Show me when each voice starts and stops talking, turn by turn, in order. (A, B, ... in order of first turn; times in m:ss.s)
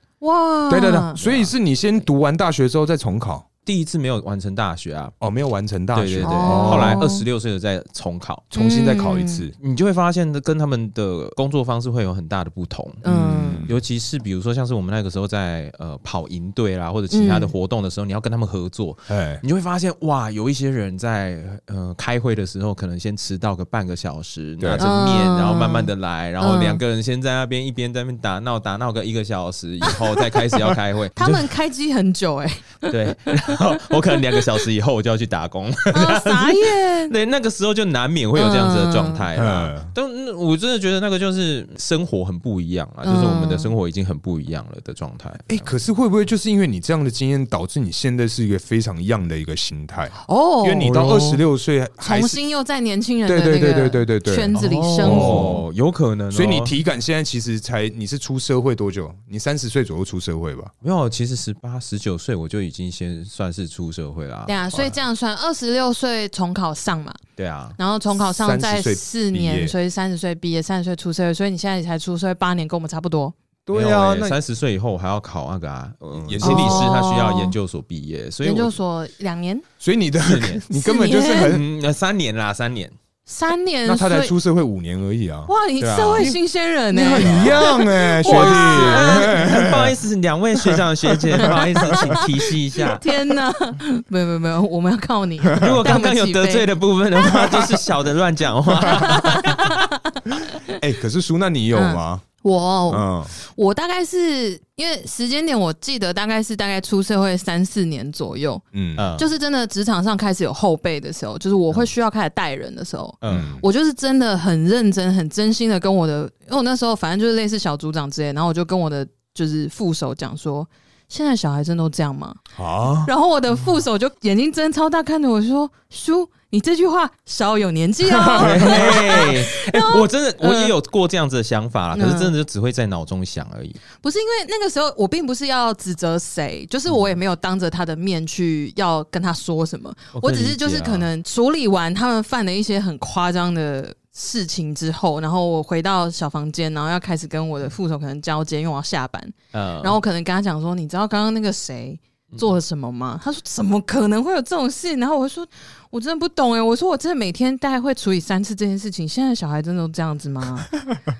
0:00.2-0:01.2 A
0:00.7-0:03.4 B
0:01.2-0:01.5 C
0:03.6-0:05.1 C
0:05.2-0:07.1 B
0:05.9-0:08.5 C
0:06.2-0:07.2 A
0:08.5-0:09.5 B
0:08.5-0:09.4 A
0:09.6-0:13.0 C
0:13.0-0:13.7 A
0:13.0-0:13.8 B
0:13.6-0:31.4 C
0:17.1-0:17.5 A
0:19.1-0:19.4 B
0:24.6-0:24.9 B
0:24.8-0:26.8 A
0:31.2-0:32.9 A
0:32.9-0:45.7 C
0:35.9-0:37.1 A
0:38.3-0:39.2 A
0:39.3-0:39.9 B
0:43.0-0:43.7 A
0:45.5-0:52.4 B
0:50.2-0:51.1 A
0:50.8-0:51.4 C
0:52.0-0:55.5 A
0:53.2-0:55.6 B
0:54.5-0:56.7 C
0:56.3-1:00.7 B
1:00.8-1:04.6 C
1:04.4-1:07.2 A
1:07.4-1:07.8 C
1:07.8-1:13.3 A
1:08.2-1:09.7 B
1:13.7-1:14.4 B
1:13.7-1:18.7 C
1:16.2-1:17.0 B
1:16.4-1:17.5 A
1:18.4-1:19.6 A
1:19.8-1:21.6 B
1:20.2-1:20.6 C
1:20.7-1:21.5 A
1:21.2-1:22.9 C
1:23.2-1:24.3 A
1:23.8-1:25.5 B
1:25.5-1:29.3 A
1:25.8-1:26.4 C
1:26.9-1:29.9 B
1:27.1-1:27.7 C
1:28.2-1:33.0 C
1:30.6-1:32.1 B
1:31.4-1:32.3 A
1:32.9-1:36.7 A
1:35.6-1:39.8 C
1:37.2-1:37.6 A
1:37.3-1:37.7 B
1:38.9-1:40.2 A
1:40.8-1:42.2 B
1:41.7-1:48.6 A
1:42.9-1:43.3 B
1:48.7-1:49.0 B
1:49.0-1:49.3 C
1:49.2-2:02.4 A
1:53.2-1:53.5 C
1:53.3-1:53.6 B
2:02.5-2:03.1 B
2:03.0-2:10.7 A
2:08.1-2:09.2 B
2:08.4-2:13.8 C
2:11.9-2:12.3 A
2:14.0-2:40.7 A
2:20.1-2:21.1 C
2:29.5-2:30.0 C